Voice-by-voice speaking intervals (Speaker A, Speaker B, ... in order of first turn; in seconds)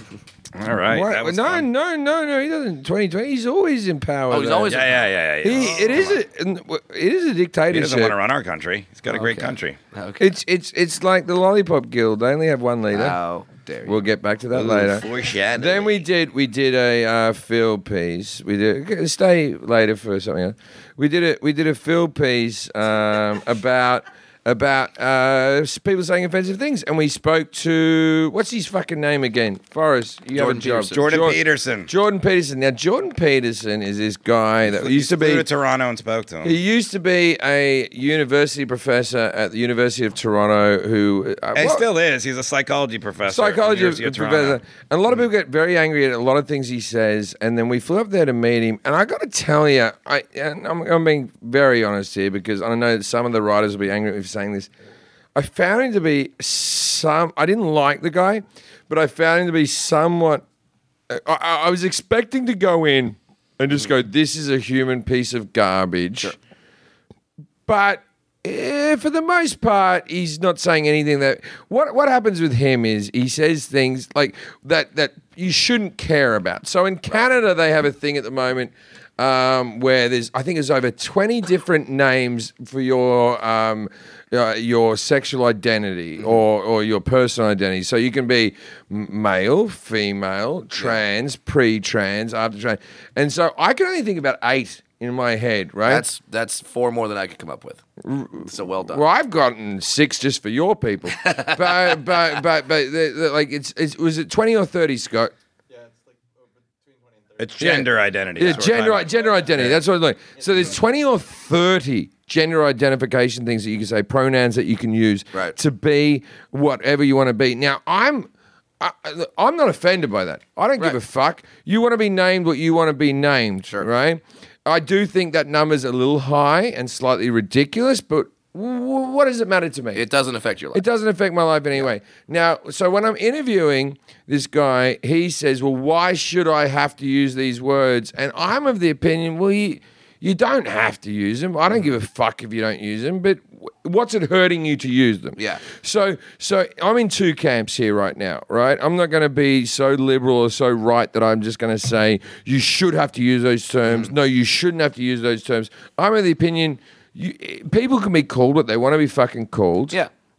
Speaker A: 0.5-1.6, 4.7-6.1, 7.7-9.8, 14.5-15.9, 30.9-31.9, 34.7-36.5, 41.5-44.6, 107.4-109.1
Speaker B: 0.9-4.8, 5.4-8.1, 10.2-13.2, 13.8-35.4, 36.4-41.9, 43.3-54.7, 55.3-60.4, 61.1-66.3, 67.7-96.0, 98.0-105.3, 107.6-130.0, 130.7-160.0
Speaker C: 4.3-5.1, 5.6-6.1, 9.1-10.3, 12.9-14.0, 30.3-31.0, 95.8-97.8, 98.4-99.0, 101.2-102.0, 108.5-108.7, 129.9-130.8, 145.4-145.6